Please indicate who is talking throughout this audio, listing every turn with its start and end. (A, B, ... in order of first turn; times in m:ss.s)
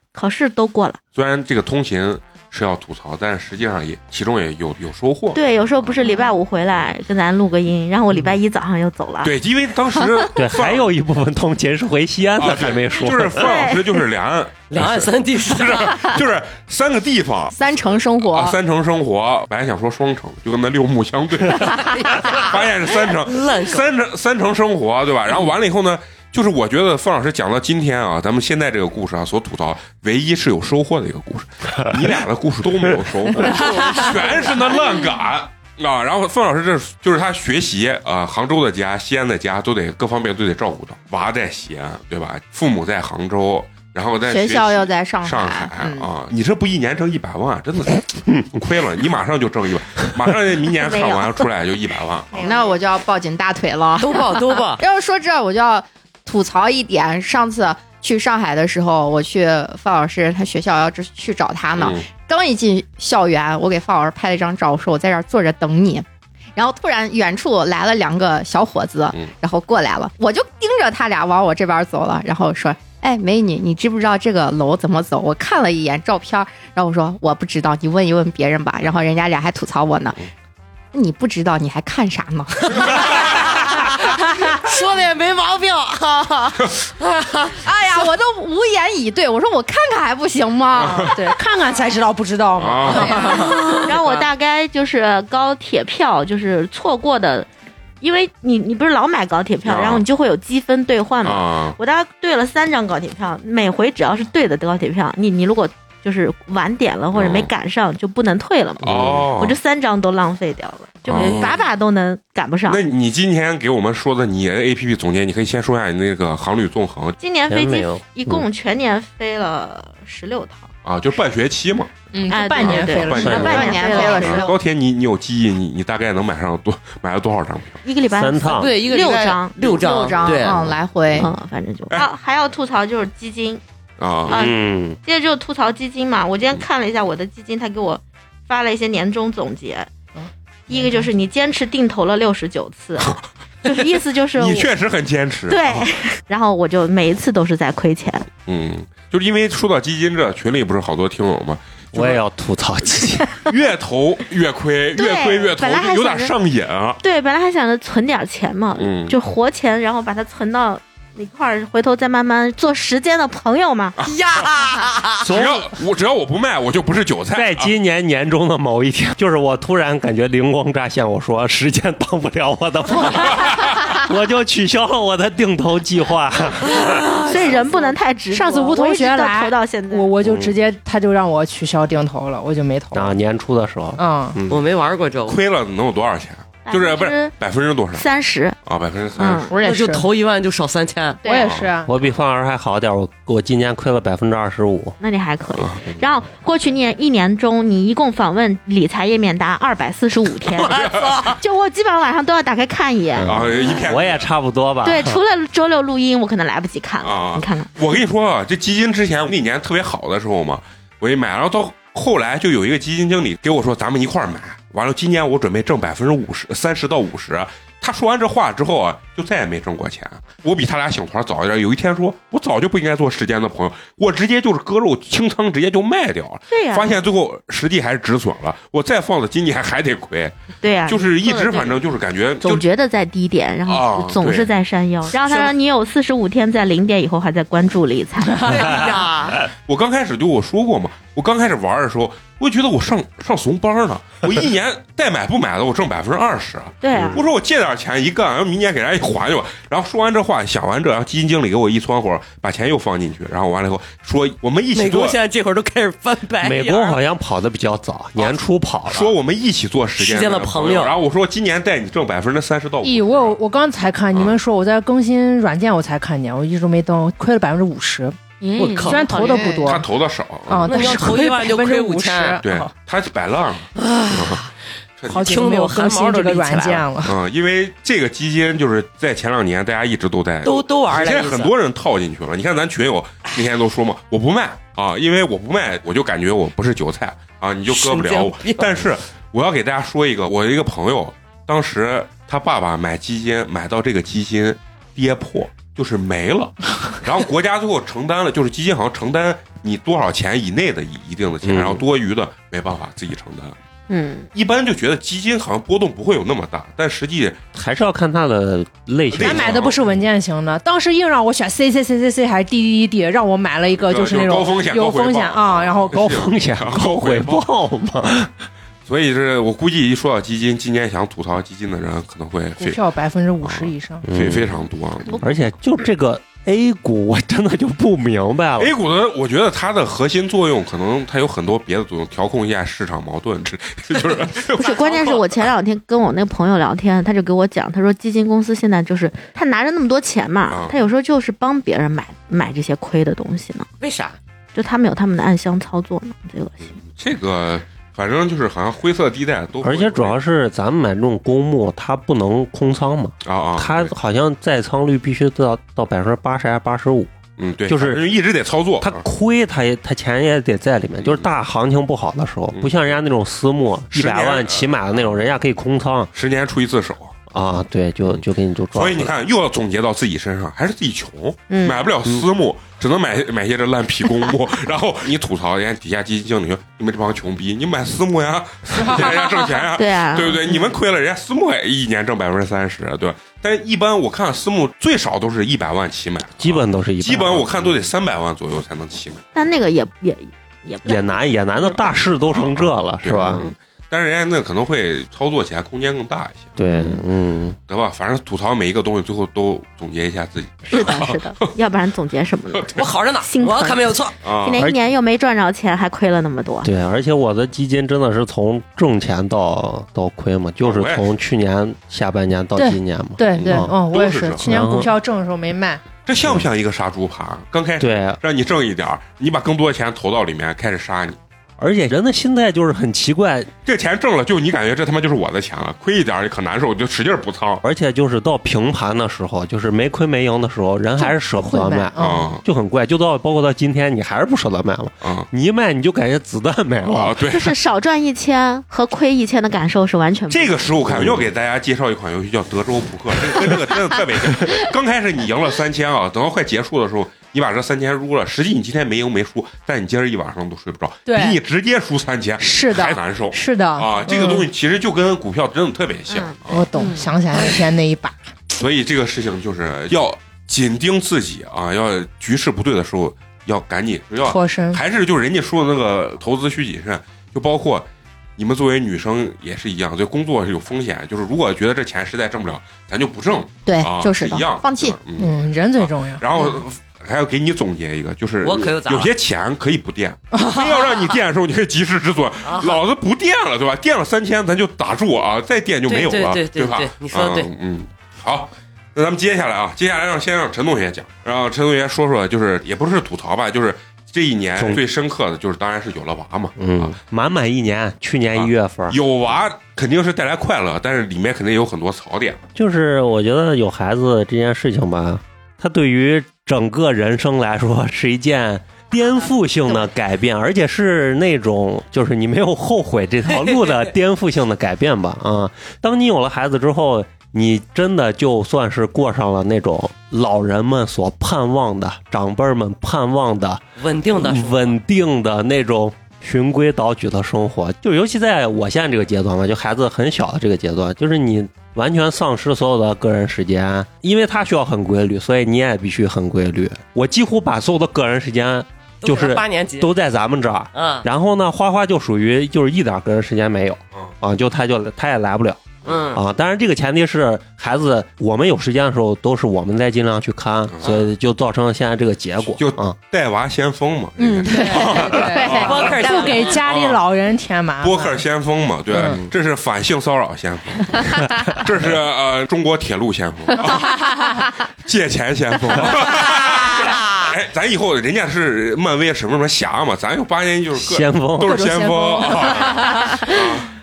0:00.1-0:01.0 A
0:01.1-0:06.1 B
0:05.3-0:09.3 A
0:09.2-0:10.9 B
0:10.4-0:13.5 C
0:12.4-0:52.4 B
0:13.4-0:13.8 A
0:14.7-0:16.1 D
0:17.5-0:18.6 E
0:22.2-0:23.8 D
0:33.5-0:34.3 D
0:44.3-0:46.1 E
0:50.7-0:51.4 A
0:52.3-1:20.2 E
0:52.4-0:52.7 A
0:54.0-0:54.8 D
1:01.8-1:02.0 B
1:20.9-1:23.5 E
1:22.8-1:28.1 D
1:22.9-1:23.4 B
1:27.5-1:31.2 E
1:30.7-1:31.1 B
1:31.1-1:33.6 F
1:32.6-1:33.3 B
1:33.1-1:37.5 A
1:33.5-1:34.3 D
1:38.0-1:52.8 A
1:39.6-1:40.0 B
1:41.2-1:41.8 B
1:47.1-1:47.5 B
1:48.8-1:49.6 B
1:48.8-1:49.3 C
1:51.1-1:51.6 B
1:52.7-1:57.2 B
1:57.2-2:00.7 A
1:57.5-1:58.4 C
2:00.8-2:01.9 B
2:02.1-2:04.1 F
2:02.3-2:04.5 A
2:02.6-2:07.8 B
2:03.2-2:03.6 C
2:03.4-2:04.5 E
2:07.8-2:10.2 A
2:08.1-2:08.8 C
2:08.5-2:10.7 D
2:09.6-2:11.3 E
2:11.1-2:13.6 A
2:14.0-2:14.4 B
2:14.3-2:15.0 C
2:14.3-2:19.9 A
2:20.2-2:21.1 F
2:20.7-2:24.7 A
2:24.4-2:25.9 B
2:25.5-2:28.3 A
2:28.5-2:32.2 B
2:31.9-2:33.3 C
2:33.4-2:37.0 B
2:35.0-2:36.3 A
2:37.0-2:44.0 A
2:38.8-2:39.2 B
2:44.0-2:45.2 D
2:45.2-2:45.7 C
2:45.2-2:47.7 B
2:47.4-2:57.2 C
2:56.8-3:00.1 A
2:57.5-3:03.1 F
3:00.2-3:00.5 C
3:02.9-3:04.6 C
3:04.0-3:04.4 F
3:04.5-3:05.4 D
3:05.2-3:08.1 B
3:06.6-3:07.3 A
3:07.9-3:08.6 A
3:08.6-3:09.5 B
3:09.2-3:09.6 A
3:09.5-3:10.0 E
3:09.6-3:11.2 D
3:11.2-3:11.6 A
3:11.2-3:11.9 F
3:11.8-3:15.0 C
3:15.0-3:23.9 A
3:15.6-3:16.0 B
3:20.7-3:21.2 B
3:20.7-3:21.3 D
3:23.2-3:25.2 C
3:23.2-3:24.3 B
3:24.8-3:27.7 A
3:27.0-3:52.6 B
3:46.5-3:47.0 A
3:50.6-3:51.8 A
3:52.4-3:58.9 A
3:53.6-3:54.5 B
3:58.4-3:59.4 D
3:59.6-4:15.2 B
4:06.8-4:07.2 A
4:14.7-4:17.0 D
4:16.4-4:19.1 C
4:18.9-4:23.4 B
4:20.0-4:21.0 D
4:22.8-4:28.2 F
4:28.4-4:29.7 A
4:28.6-4:29.1 D
4:28.8-4:29.8 F
4:29.3-4:29.7 E
4:29.6-4:31.1 B
4:30.5-4:32.7 F
4:30.7-4:32.4 D
4:32.4-4:34.4 B
4:33.8-4:34.5 D
4:35.0-4:35.4 B
4:35.1-4:37.2 F
4:35.2-4:36.8 D
4:37.0-5:03.6 B
4:40.4-4:41.5 D
4:47.7-4:48.7 D
5:01.4-5:01.8 C
5:03.9-5:04.3 A
5:04.3-5:07.4 B
5:07.5-5:09.8 C
5:09.1-5:09.8 B
5:09.2-5:16.1 F
5:13.7-5:17.4 B
5:15.9-5:18.3 C
5:18.8-5:22.8 B
5:22.6-5:24.0 F
5:23.4-5:25.2 B
5:24.0-5:24.6 C
5:25.0-5:25.5 A
5:25.2-5:28.7 C
5:28.6-5:35.5 B
5:34.5-5:43.7 A
5:40.5-5:40.8 B
5:43.8-5:44.2 D
5:44.5-5:46.7 A
5:46.8-5:50.2 B
5:49.6-5:57.1 C
5:53.2-5:53.9 B
5:57.4-5:59.0 B
5:57.7-5:58.0 C
5:58.8-6:06.1 C
6:02.5-6:03.0 B
6:03.9-6:05.2 B
6:06.1-6:07.2 B
6:07.3-6:09.1 C
6:08.1-6:29.2 B
6:11.5-6:11.9 A
6:19.7-6:20.5 A
6:26.4-6:27.7 C
6:29.3-6:31.9 A
6:30.8-6:33.5 C
6:32.3-6:36.6 B
6:33.2-6:33.5 A
6:36.6-6:37.6 C
6:36.7-6:37.0 A
6:37.7-6:41.3 B
6:40.7-6:46.7 A
6:42.7-6:44.1 D
6:44.2-6:44.6 B
6:46.6-6:53.7 C
6:50.6-6:51.1 B
6:52.6-6:55.8 F
6:53.3-6:54.5 B
6:54.5-6:54.9 C
6:56.0-7:01.2 B
6:57.8-6:58.2 C
7:01.6-7:03.5 C
7:03.6-7:07.6 B
7:07.6-7:17.2 C
7:11.0-7:12.3 F
7:12.0-7:12.4 B
7:16.8-7:17.5 B
7:17.3-7:20.8 A
7:20.3-7:36.7 B
7:20.9-7:21.2 C
7:31.0-7:31.4 F
7:32.4-7:34.4 F
7:36.1-7:37.0 A
7:36.5-7:38.3 F
7:38.5-8:16.9 B
7:44.2-7:44.8 F
7:53.6-7:55.0 E
7:55.2-7:56.2 F
7:58.4-7:59.1 D
8:00.3-8:00.6 F
8:02.4-8:02.8 D
8:05.9-8:07.5 D
8:16.6-8:19.0 C
8:18.3-8:22.4 B
8:22.5-8:43.6 C
8:33.3-8:33.8 D
8:43.8-8:44.8 D
8:44.1-9:13.0 C
8:59.0-8:59.9 D
9:00.7-9:01.0 D
9:05.8-9:06.2 D
9:10.7-9:10.9 B
9:12.6-9:17.0 B
9:14.2-9:16.2 E
9:14.5-9:18.1 F
9:15.3-9:16.6 D
9:17.8-9:24.1 B
9:19.0-9:19.2 C
9:21.3-9:21.5 C
9:24.8-9:33.7 B
9:30.8-9:31.6 C
9:31.4-9:33.2 F